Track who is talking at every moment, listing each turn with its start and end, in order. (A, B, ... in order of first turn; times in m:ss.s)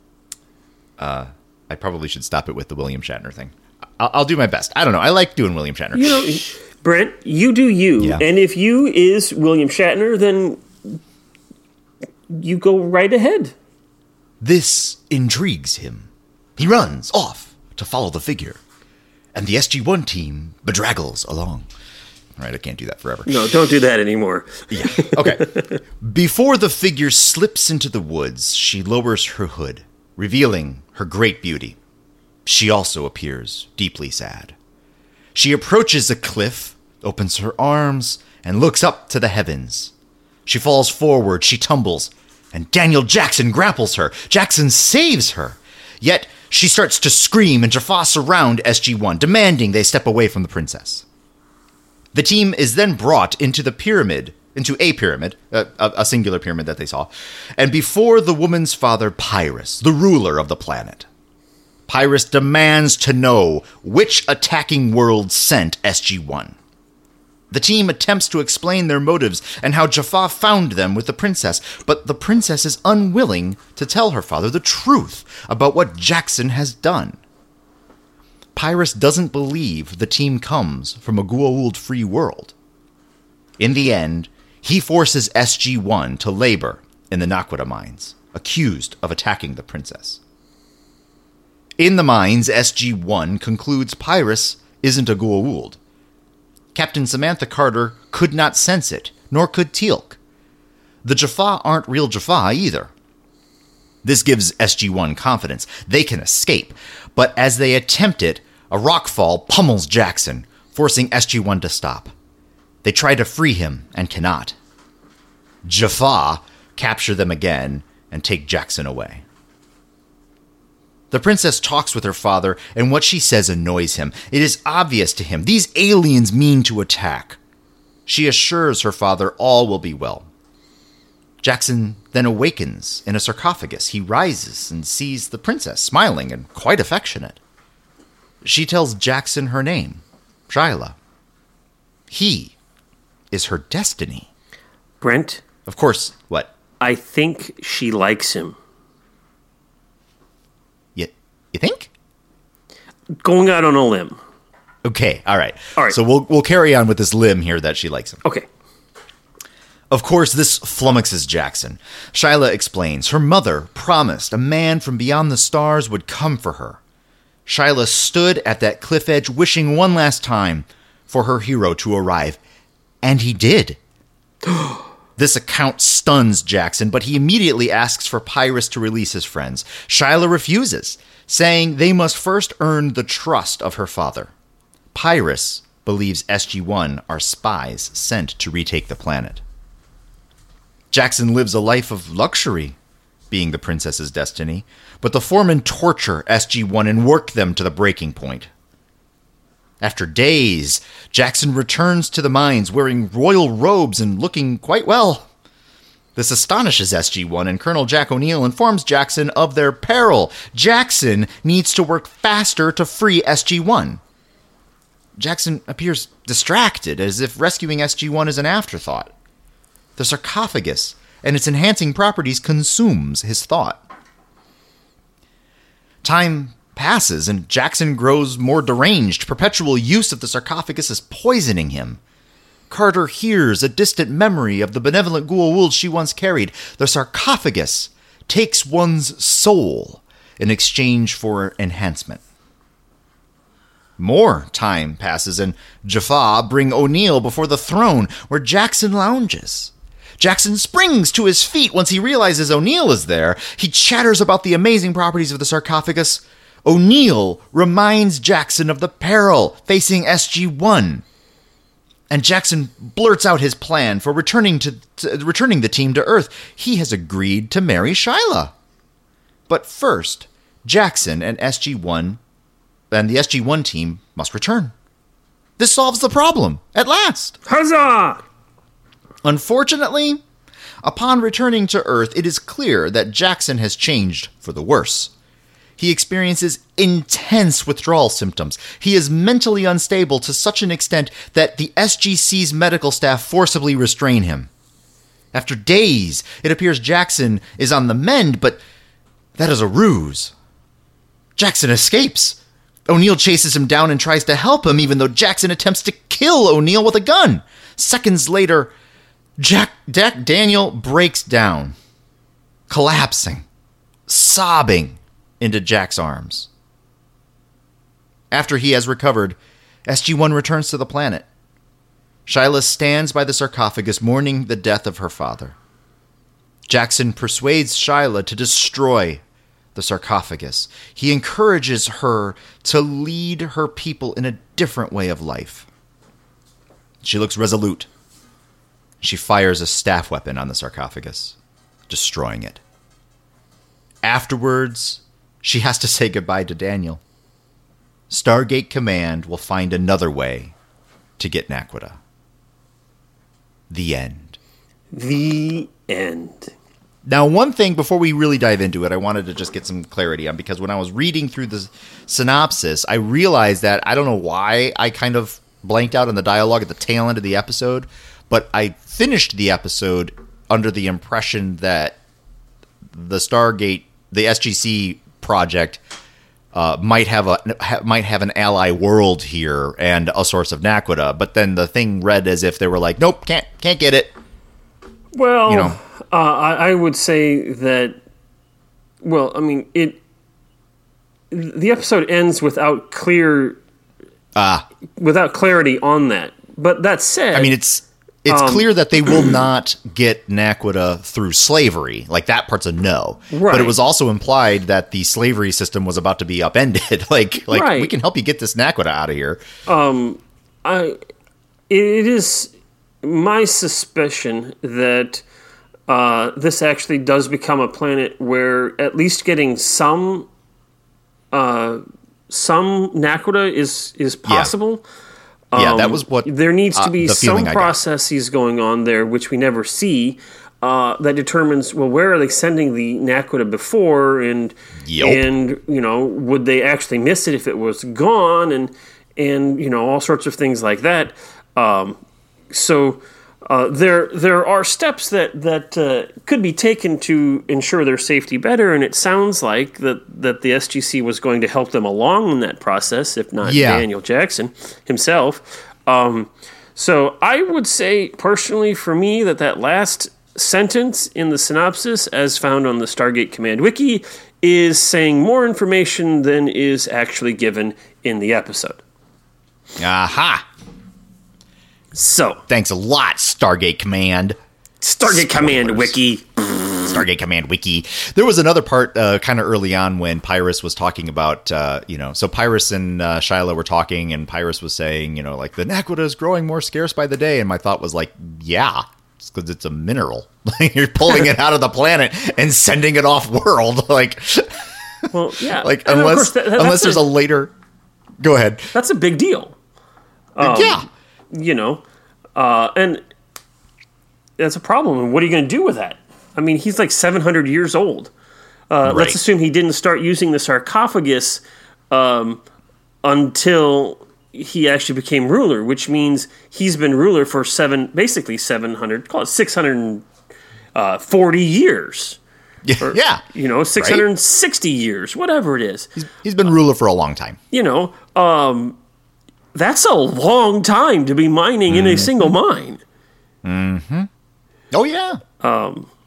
0:01.0-0:06.5 A
0:05.9-0:11.0 B
0:08.0-0:08.2 A
0:12.3-0:13.5 B
0:14.4-0:18.6 A
0:19.3-0:21.7 A
0:22.4-0:23.4 A
0:23.3-0:25.8 B
0:24.7-0:25.4 A
0:26.0-0:31.8 A
0:32.4-0:34.6 A
0:35.4-0:39.9 A
0:40.5-0:51.0 A
0:52.1-1:01.1 A
1:01.9-1:06.6 A
1:07.5-1:17.2 A
1:18.6-1:22.5 A
1:23.6-1:30.2 A
1:31.8-1:35.8 A
1:36.7-1:40.2 A
1:41.0-1:42.9 A
1:44.0-1:52.1 A
1:52.8-1:54.6 A
1:55.6-1:59.2 A
2:01.1-2:07.4 A
2:08.1-2:10.3 A
2:11.4-2:17.4 A
2:18.4-2:21.0 A
2:22.1-2:22.5 A
2:23.3-2:24.3 A
2:25.0-2:25.4 B
2:25.7-2:26.5 A
2:26.8-2:28.6 B
2:31.0-2:31.9 A
2:33.2-2:34.2 B
2:34.8-2:38.2 A
2:39.9-2:46.8 A
2:47.5-2:52.4 A
2:53.0-2:53.8 A
2:55.2-3:04.3 A
3:04.9-3:09.4 A
3:10.9-3:12.8 A
3:13.3-3:18.5 A
3:19.8-3:25.3 A
3:26.2-3:34.0 A
3:35.2-3:39.1 A
3:40.0-3:43.8 A
3:46.0-3:52.0 A
3:52.7-4:02.2 A
4:04.0-4:21.0 A
4:22.1-4:28.5 A
4:29.5-4:32.2 A
4:32.9-4:34.7 A
4:35.6-4:37.4 A
4:37.5-4:38.2 B
4:39.2-4:40.2 A
4:40.8-4:45.1 A
4:45.8-4:54.5 A
4:55.3-4:58.6 A
4:59.4-5:00.3 A
5:01.4-5:08.7 A
5:09.4-5:11.8 A
5:12.7-5:13.5 A
5:14.1-5:16.5 A
5:18.3-5:21.2 A
5:22.3-5:25.6 A
5:26.7-5:29.2 A
5:29.8-5:35.7 A
5:37.0-5:37.9 A
5:39.0-5:41.4 A
5:41.9-5:42.6 A
5:44.0-5:47.0 A
5:48.1-5:50.5 A
5:51.2-5:52.0 A
5:53.7-5:54.4 A
5:54.9-5:56.5 B
5:57.1-6:12.0 A
6:12.9-6:15.8 A
6:16.5-6:24.1 A
6:25.2-6:28.0 B
6:25.5-6:25.8 A
6:29.0-6:30.0 B
6:31.3-6:33.6 B
6:34.4-6:34.7 A
6:35.0-6:37.5 B
6:37.3-6:49.4 A
6:38.3-6:39.3 B
6:43.3-6:43.8 B
6:47.5-6:47.9 B
6:49.7-6:51.0 B
6:51.7-6:52.5 B
6:53.0-6:55.2 B
6:55.9-7:00.3 B
7:01.3-7:04.8 B
7:04.3-7:04.5 A
7:05.5-7:22.0 B
7:05.6-7:07.8 A
7:14.9-7:15.3 A
7:22.5-7:48.8 B
7:33.4-7:33.9 A
7:49.8-7:50.5 A
7:51.9-7:52.4 B
7:52.5-7:54.4 A
7:54.8-7:57.0 B
7:55.0-7:56.0 A
7:56.9-8:17.5 A
8:15.1-8:17.0 B
8:18.2-8:18.7 A
8:18.7-8:19.6 B
8:20.4-8:21.8 B
8:20.4-8:20.9 A
8:22.4-8:23.0 B
8:24.4-8:28.1 B
8:28.7-8:32.4 B
8:28.9-8:29.2 A
8:33.0-8:40.1 B
8:40.8-8:42.2 B
8:42.6-8:43.2 A
8:42.8-8:45.9 B
8:43.8-8:44.0 A
8:46.0-8:47.4 A
8:47.5-8:48.8 B
8:49.5-8:52.8 B
8:51.7-8:52.3 A
8:53.4-8:54.1 A
8:54.7-8:55.2 A
8:55.4-8:55.9 B